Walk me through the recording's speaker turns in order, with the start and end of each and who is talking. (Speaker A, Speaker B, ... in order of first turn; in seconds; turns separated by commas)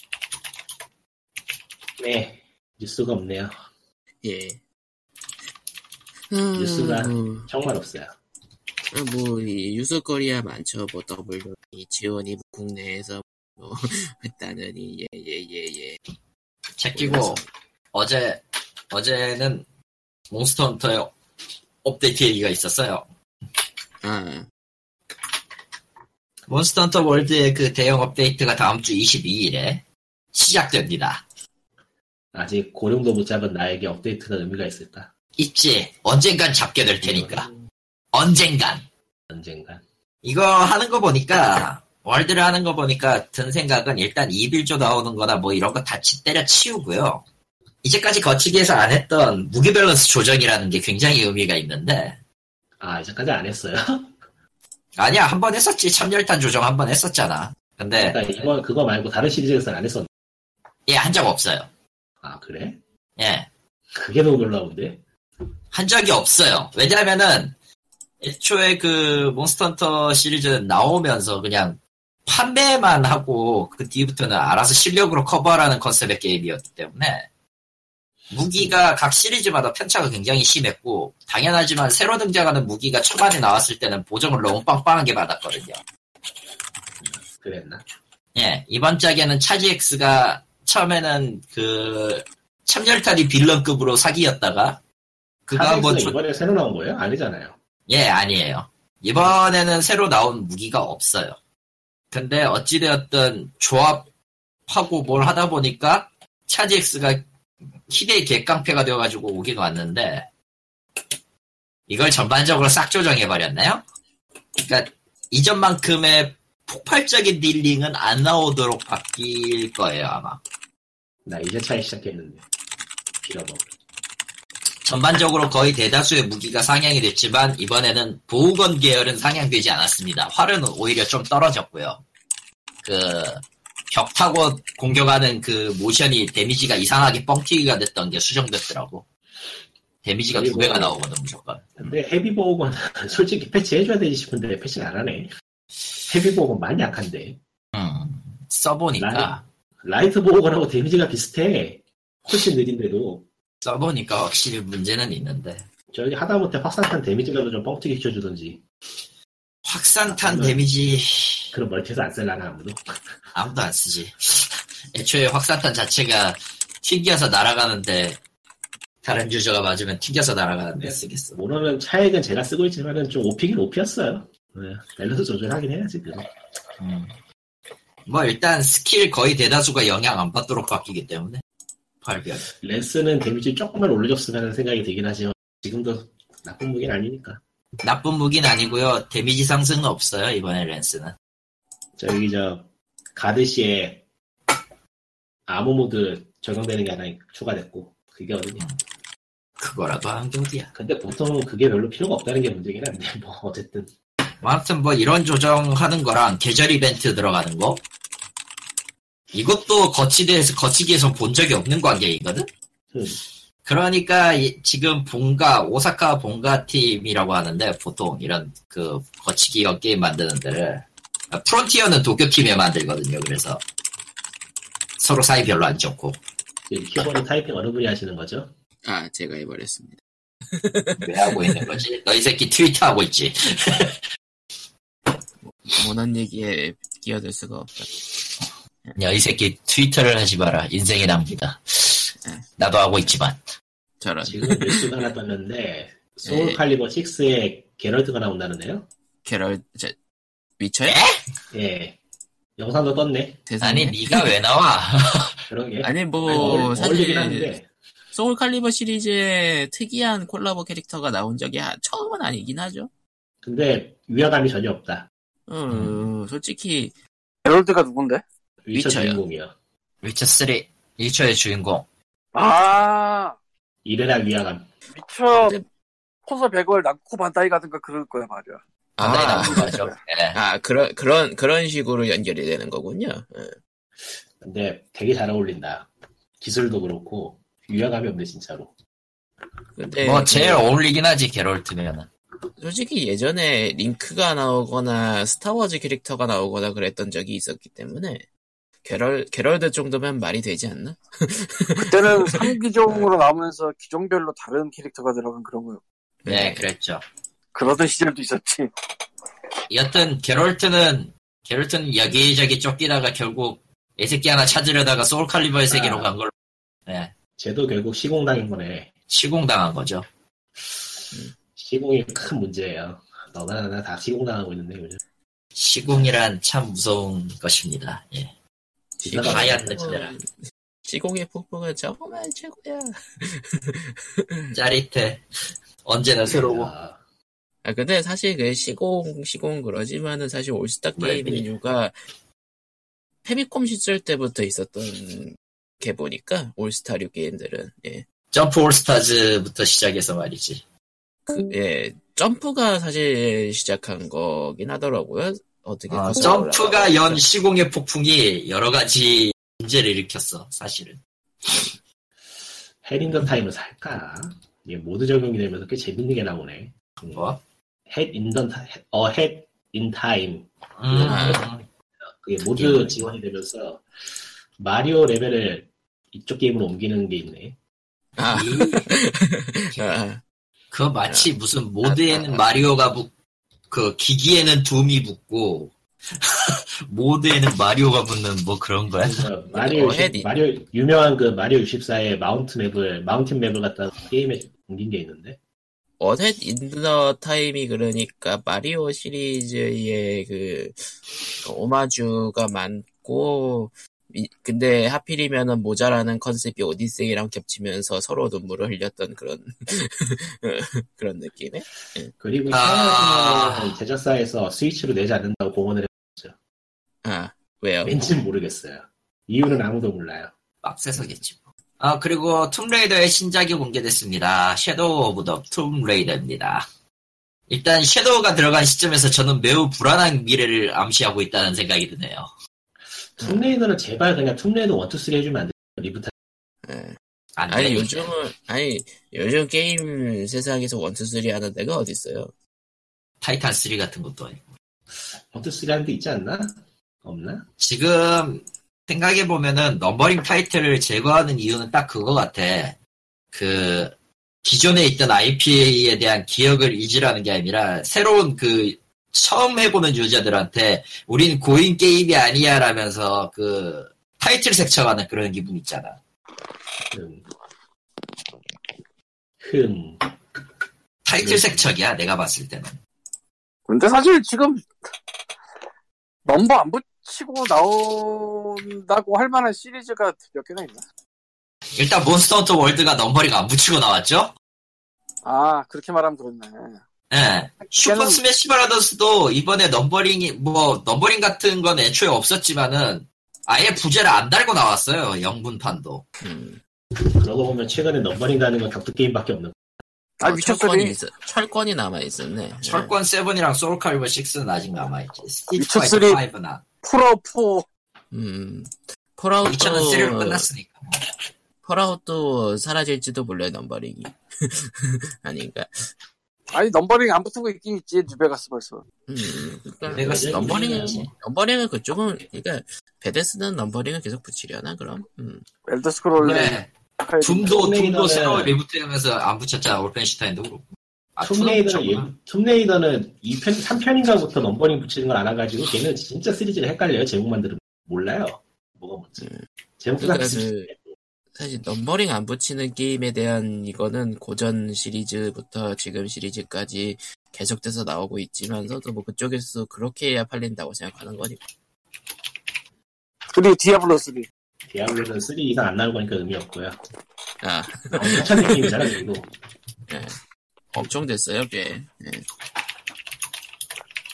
Speaker A: 2.0-3.5, Speaker B: 4.2-4.6, Speaker B: 6.3-7.5, Speaker A: 6.5-8.1, Speaker B: 8.9-16.0, Speaker C: 16.8-17.4, Speaker B: 16.9-17.4, Speaker C: 17.9-19.6, Speaker C: 20.3-21.1, Speaker C: 21.8-23.1, Speaker B: 24.0-24.5, Speaker C: 26.5-31.2, Speaker A: 32.3-35.1, Speaker C: 35.4-37.5, Speaker A: 37.0-37.6, Speaker C: 38.1-38.8, Speaker A: 39.3-39.8, Speaker C: 40.2-47.2, Speaker C: 47.8-52.2, Speaker A: 52.8-54.1, Speaker C: 55.0-58.3, Speaker A: 57.9-60.1, Speaker C: 60.9-61.7, Speaker A: 62.2-62.8, Speaker C: 63.2-63.5, Speaker A: 63.9-65.0, Speaker C: 65.7-67.5, Speaker C: 68.2-77.3, Speaker C: 78.3-85.8, Speaker A: 87.0-87.8, Speaker C: 88.3-94.8, Speaker C: 95.5-96.2, Speaker A: 95.5-97.5, Speaker C: 97.9-101.4, Speaker C: 102.1-104.1, Speaker C: 104.7-107.2, Speaker C: 107.9-110.3, Speaker C: 111.9-113.8, Speaker C: 114.6-120.4, Speaker A: 121.2-122.4, Speaker A: 123.2-123.7, Speaker C: 124.8-132.0, Speaker C: 132.8-139.0, Speaker C: 140.0-141.9, Speaker A: 140.3-141.0, Speaker A: 141.8-145.3, Speaker A: 146.1-147.4, Speaker C: 147.7-149.4, Speaker A: 149.0-153.2, Speaker C: 153.6-155.6, Speaker A: 155.9-158.6, Speaker C: 159.6-161.5, Speaker A: 160.1-160.6, Speaker A: 161.5-162.8, Speaker C: 163.3-168.2, Speaker C: 169.0-171.4, Speaker A: 170.8-176.3, Speaker C: 176.8-177.1, Speaker C: 178.1-181.4, Speaker C: 182.0-182.4, Speaker A: 182.6-187.4, Speaker C: 187.8-191.1, Speaker A: 192.0-194.0, Speaker A: 195.5-198.7, Speaker C: 199.6-200.7, Speaker A: 200.7-203.9, Speaker C: 204.4-207.8, Speaker C: 209.3-212.5, Speaker A: 212.9-213.2, Speaker C: 213.6-223.6, Speaker C: 225.0-226.2, Speaker A: 226.7-228.5, Speaker B: 228.8-231.7, Speaker C: 231.0-234.0, Speaker B: 235.4-237.9, Speaker C: 238.9-243.5, Speaker B: 244.0-245.1, Speaker A: 244.2-248.9, Speaker B: 246.2-246.6, Speaker B: 249.2-249.9, Speaker B: 250.6-251.0, Speaker C: 250.9-251.2, Speaker A: 251.5-252.0, Speaker A: 252.6-253.4, Speaker B: 253.5-254.3, Speaker C: 253.6-255.4, Speaker A: 255.5-257.7, Speaker B: 255.8-257.5, Speaker C: 256.3-256.6, Speaker B: 258.1-262.9, Speaker A: 263.4-265.1, Speaker B: 265.5-266.9, Speaker C: 265.7-266.1, Speaker D: 267.4-268.2, Speaker A: 268.6-269.5, Speaker B: 268.7-269.2, Speaker C: 270.0-271.9, Speaker D: 272.3-273.4, Speaker A: 273.8-274.7, Speaker D: 274.9-275.6, Speaker B: 275.3-275.6, Speaker D: 276.2-278.6, Speaker B: 279.0-279.8, Speaker C: 279.0-280.4, Speaker D: 279.2-279.9, Speaker B: 280.3-283.5, Speaker A: 284.4-288.7, Speaker B: 289.8-290.7, Speaker C: 290.0-292.1, Speaker B: 292.6-298.2, Speaker B: 298.8-303.2, Speaker D: 301.8-305.8, Speaker B: 306.2-306.7, Speaker C: 306.3-307.0, Speaker D: 307.5-308.7, Speaker C: 309.7-316.3, Speaker A: 315.7-316.1, Speaker C: 316.9-317.1, Speaker A: 317.4-318.9, Speaker C: 319.1-320.0, Speaker A: 321.5-325.0, Speaker C: 325.5-328.3, Speaker A: 329.0-330.1, Speaker B: 329.0-330.3, Speaker C: 329.2-330.1, Speaker B: 330.9-334.6, Speaker C: 334.5-335.2, Speaker C: 335.8-336.7, Speaker A: 336.2-337.0, Speaker B: 337.6-341.9, Speaker C: 341.0-341.5, Speaker B: 343.2-348.0, Speaker C: 348.3-350.6, Speaker B: 351.2-357.2, Speaker C: 355.9-361.0, Speaker A: 362.8-367.2, Speaker C: 367.1-367.4, Speaker A: 367.9-371.4, Speaker C: 370.8-371.6, Speaker B: 371.0-371.4, Speaker A: 372.2-373.8, Speaker C: 372.6-372.9, Speaker B: 372.6-372.9, Speaker A: 374.6-377.6, Speaker B: 378.2-380.2, Speaker C: 378.3-378.9, Speaker C: 379.7-380.0, Speaker C: 380.7-383.1, Speaker B: 381.1-381.3, Speaker B: 381.8-382.7, Speaker C: 383.7-389.2, Speaker A: 389.0-395.4, Speaker B: 389.5-390.3, Speaker B: 396.0-400.9, Speaker B: 401.4-412.1, Speaker A: 412.2-416.3, Speaker C: 412.5-413.8, Speaker B: 417.0-417.9, Speaker A: 417.8-420.3, Speaker C: 420.6-426.7, Speaker C: 427.5-432.3, Speaker A: 433.2-436.1, Speaker B: 436.6-437.0, Speaker C: 437.4-438.1, Speaker B: 437.5-442.3, Speaker C: 443.2-444.4, Speaker A: 445.3-447.4, Speaker C: 447.6-452.8, Speaker C: 453.3-466.0, Speaker A: 466.9-467.2, Speaker A: 469.4-470.1, Speaker C: 471.0-472.8, Speaker A: 471.2-471.7, Speaker D: 473.7-474.7, Speaker D: 476.2-480.8, Speaker C: 481.8-484.3, Speaker D: 485.2-486.8, Speaker C: 487.1-496.0, Speaker D: 487.8-488.2, Speaker B: 496.2-496.6, Speaker A: 497.1-499.6, Speaker D: 500.2-501.0, Speaker B: 500.2-502.9, Speaker C: 502.6-506.6, Speaker D: 505.6-506.2, Speaker D: 506.8-507.6, Speaker B: 508.1-510.5, Speaker C: 509.4-510.9, Speaker B: 511.6-515.9, Speaker D: 516.5-518.8, Speaker B: 519.1-525.4, Speaker A: 519.8-521.0, Speaker C: 519.9-521.1, Speaker D: 525.7-527.6, Speaker C: 526.2-526.7, Speaker C: 527.2-532.1, Speaker A: 527.5-528.5, Speaker A: 531.2-540.8, Speaker B: 540.0-540.7, Speaker B: 541.3-551.4, Speaker D: 553.3-554.3, Speaker A: 554.7-556.8, Speaker B: 557.4-559.0, Speaker A: 557.9-559.3, Speaker B: 559.9-560.2, Speaker B: 560.7-562.2